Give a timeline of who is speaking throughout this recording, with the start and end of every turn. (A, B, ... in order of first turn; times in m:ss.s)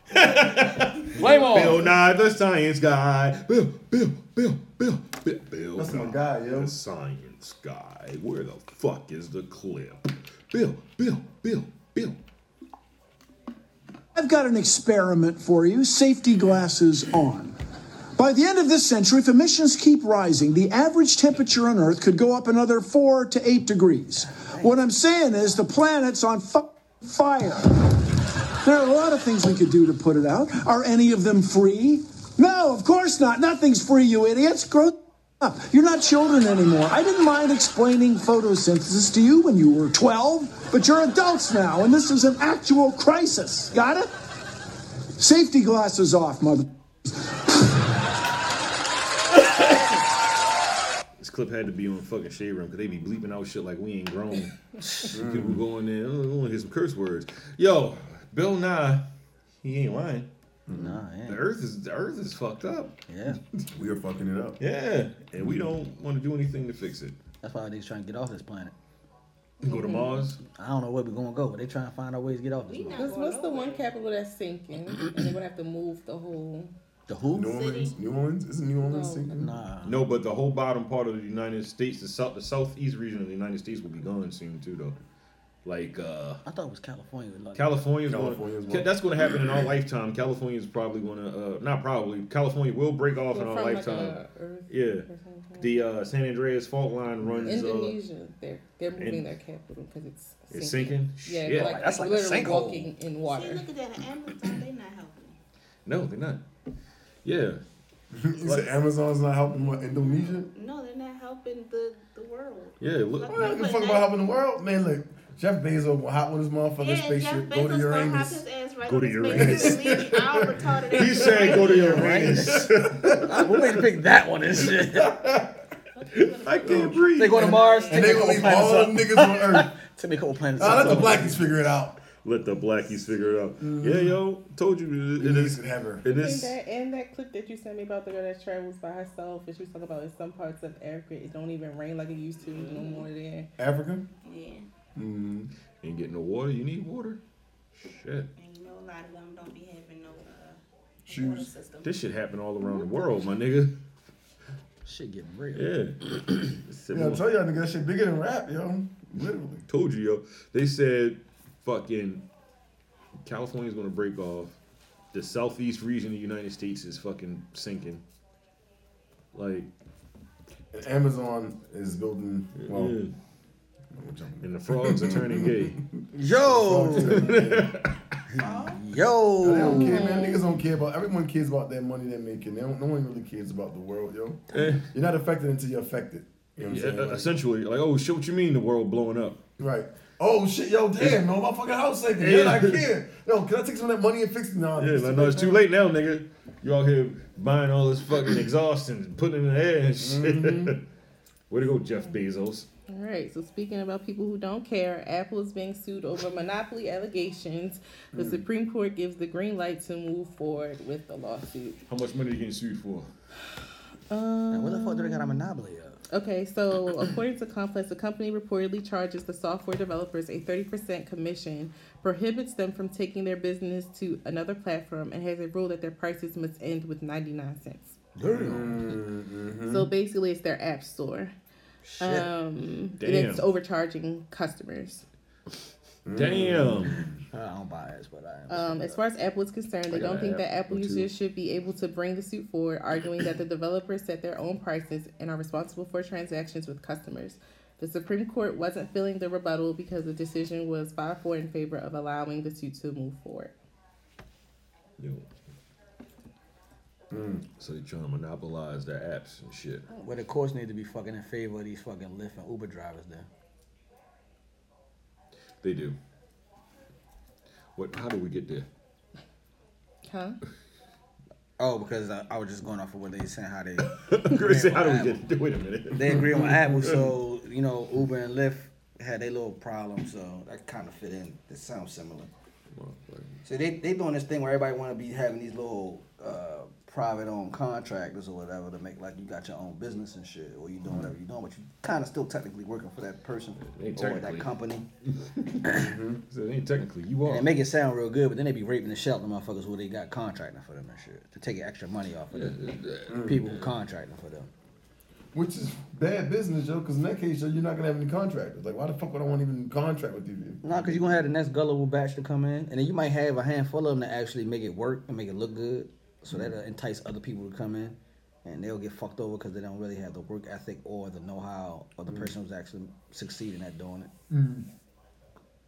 0:00.1-0:12.2 A
0:01.2-0:01.9 B
0:05.8-0:06.7 C
0:14.2-0:17.6 D
0:18.2-0:27.8 D
0:24.2-0:24.8 B
0:28.6-0:44.1 D
0:45.2-0:46.7 D
0:51.2-0:59.0 A
0:55.1-0:55.6 C
0:59.6-1:00.3 A
1:00.7-1:01.0 C
1:00.8-1:01.4 B
1:01.3-1:02.9 A
1:03.1-1:03.4 B
1:03.7-1:04.6 C
1:04.6-1:07.2 A
1:05.4-1:05.7 C
1:07.4-1:08.7 B
1:09.6-1:10.4 A
1:09.6-1:10.3 E
1:10.5-1:13.1 B
1:12.7-1:13.8 F
1:13.0-1:16.7 E
1:17.1-1:17.5 B
1:17.3-1:19.5 C
1:17.4-1:18.0 F
1:18.8-1:19.5 E
1:19.4-1:20.1 B
1:19.8-1:25.0 A
1:25.6-1:26.4 A
1:26.4-1:27.8 B
1:27.6-1:35.1 A
1:28.0-1:28.9 C
1:33.2-1:35.8 E
1:35.6-1:38.0 A
1:37.2-1:37.6 C
1:37.4-1:43.7 E
1:39.0-1:39.2 A
1:40.5-1:41.8 A
1:41.6-1:42.9 B
1:43.3-1:45.4 F
1:45.9-1:46.4 A
1:47.2-1:47.6 A
1:48.1-1:50.5 C
1:48.4-1:48.8 A
1:49.7-1:54.1 F
1:52.8-1:53.5 A
1:53.3-1:58.4 C
1:56.8-2:02.2 F
1:58.8-2:00.0 A
1:59.3-2:01.0 C
2:00.9-2:03.3 A
2:01.5-2:02.7 B
2:01.7-2:03.4 C
2:03.2-2:05.2 B
2:04.6-2:05.5 A
2:06.0-2:08.6 F
2:06.4-2:07.6 A
2:07.2-2:11.2 B
2:07.4-2:09.7 C
2:10.6-2:12.0 C
2:10.6-2:11.3 A
2:12.2-2:16.6 A
2:13.6-2:14.2 C
2:15.2-2:16.0 C
2:16.0-2:23.5 E
2:23.6-2:24.1 C
2:24.2-2:24.7 F
2:25.0-2:25.5 C
2:25.8-2:27.2 A
2:27.8-2:28.3 A
2:28.4-2:31.9 F
2:31.1-2:31.5 C
2:31.8-2:33.8 A
2:34.8-2:35.7 B
2:35.6-2:37.2 A
2:36.9-2:39.6 C
2:39.7-2:42.2 A
2:43.2-2:44.6 A
2:45.1-2:48.0 A
2:49.3-2:49.7 A
2:50.7-2:53.0 C
2:52.6-2:53.1 A
2:53.9-2:57.7 C
2:54.4-2:55.8 A
2:56.2-2:57.5 B
2:56.9-2:57.9 A
2:58.3-3:00.1 B
2:59.4-3:07.3 C
2:59.6-3:00.5 E
3:04.5-3:04.9 A
3:06.7-3:09.4 A
3:09.6-3:15.6 C
3:12.2-3:12.9 A
3:14.8-3:20.8 A
3:20.0-3:20.8 C
3:21.5-3:22.7 A
3:22.9-3:31.8 E
3:28.1-3:28.4 C
3:31.9-3:33.1 A
3:34.1-3:35.5 E
3:34.5-3:36.0 B
3:36.1-3:48.0 E
3:48.2-3:49.0 B
3:48.3-3:49.9 C
3:49.7-3:51.3 E
3:51.8-3:52.3 B
3:52.0-3:55.0 E
3:53.0-3:53.4 A
3:56.1-3:57.2 C
3:56.2-3:57.1 A
3:57.3-3:59.0 B
3:58.5-4:13.5 E
3:59.9-4:01.1 A
4:15.0-4:15.2 A
4:17.1-4:17.4 C
4:17.6-4:19.8 A
4:20.0-4:23.3 B
4:25.6-4:26.0 A
4:27.8-4:28.7 A
4:30.0-4:30.4 E
4:31.6-4:35.2 B
4:33.8-4:37.1 A
4:35.9-4:42.3 B
4:42.8-4:43.3 A
4:43.4-4:54.9 B
4:53.6-4:54.5 A
4:55.7-4:56.2 C
4:56.3-4:57.6 A
4:57.2-5:02.6 B
5:02.3-5:03.7 A
5:03.1-5:03.4 C
5:03.2-5:04.5 B
5:05.3-5:11.2 C
5:10.6-5:24.1 B
5:24.3-5:24.7 C